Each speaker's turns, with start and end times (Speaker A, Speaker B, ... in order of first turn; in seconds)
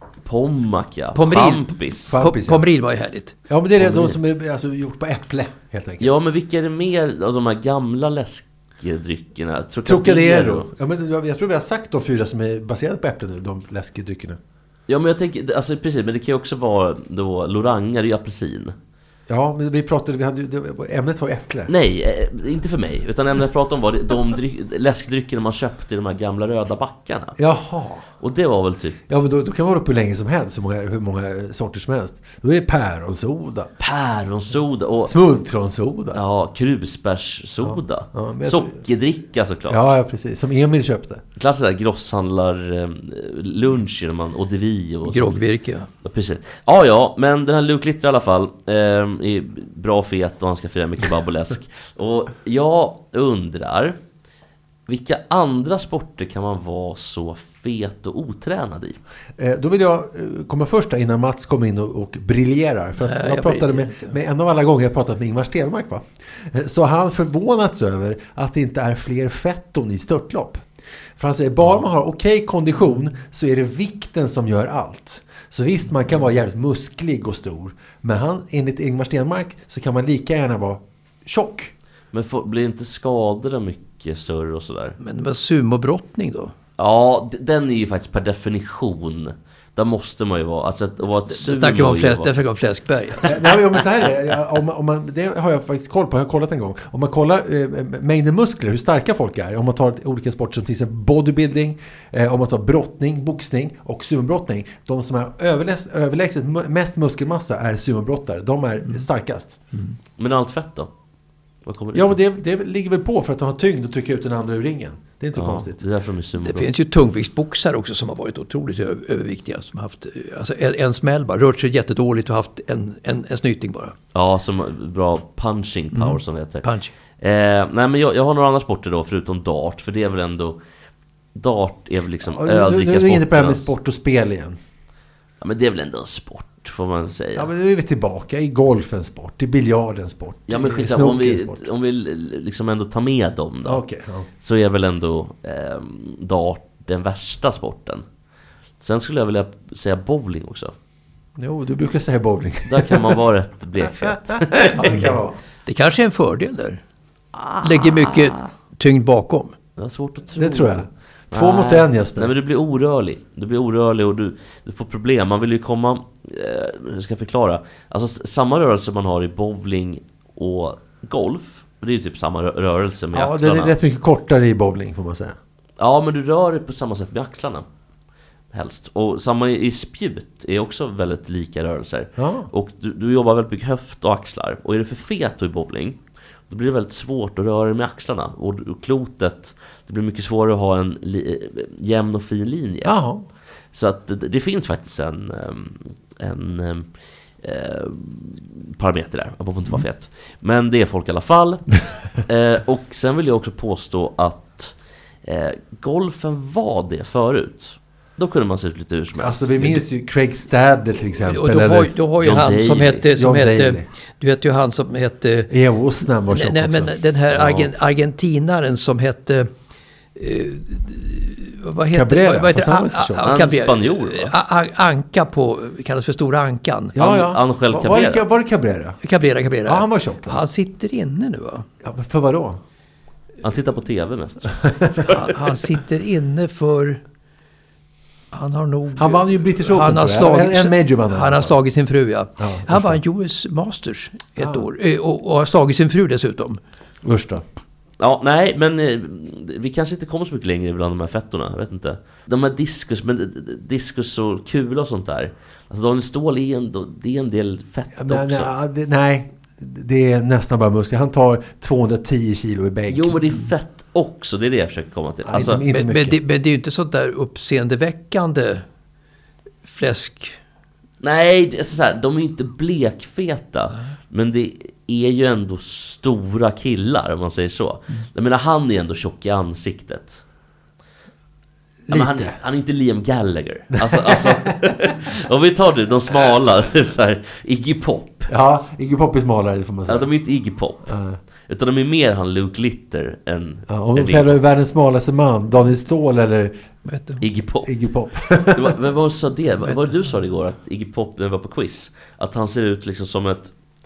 Speaker A: 0.2-2.2, 3.8-4.2, 6.0-10.7, 14.9-18.8, 21.7-27.4, 28.2-29.0, 33.8-35.1, 36.1-39.9, 41.4-45.5, 46.0-54.0, 54.9-59.0, 82.1-85.0, 86.8-92.3, 110.2-110.9, 111.7-112.2, 115.3-116.7, 124.1-126.7, 127.2-130.6, 131.3-133.7, 135.4-137.5, 140.5-143.8, 144.4-148.0, 148.8-150.7, 152.7-155.0, 157.3-158.4, 159.8-173.7, 175.8-177.7, 178.5-186.0, 186.5-192.9, 193.7-196.9, 197.4-209.8, 212.2-213.0, 217.3-217.7, 223.3-224.3, 227.0-228.2, 233.4-235.6, 248.0-258.5, 262.9-265.6, 271.0-280.2, 281.9-288.3, 289.9-290.9, 291.5-294.4, 297.2-297.7, 298.4-303.5
Speaker B: 1.1-3.4, 45.1-45.9, 63.0-64.2, 85.0-86.5, 91.3-93.3, 116.4-124.0, 125.9-126.9, 154.8-156.8, 157.6-159.6, 211.3-215.5, 216.3-219.5, 220.2-227.0, 229.0-231.7, 235.1-237.0, 238.3-246.6, 265.4-268.6, 269.6-270.4, 296.9-297.2, 299.7-300.1
Speaker C: 2.1-2.7, 3.5-6.2, 9.8-14.4, 19.3-21.7, 27.4-28.1, 29.1-33.7, 35.1-36.2, 37.6-38.8, 39.7-41.2, 59.4-70.6, 71.2-81.7, 93.3-109.6, 111.9-115.8, 132.2-134.6, 137.3-141.6, 143.6-144.3, 151.4-153.2, 154.0-155.4, 160.4-162.3, 173.1-175.4, 182.2-182.5, 192.8-193.2, 209.2-211.9, 213.1-213.9, 215.5-217.0, 221.9-223.3, 226.9-229.0, 229.7-230.4, 231.8-232.6, 239.0-241.6, 242.4-243.0, 244.4-244.6, 247.0-247.4, 258.0-263.2, 265.3-266.2, 281.9-282.4, 283.8-284.5, 288.3-290.1, 290.9-291.2, 293.7-296.5, 297.6-298.8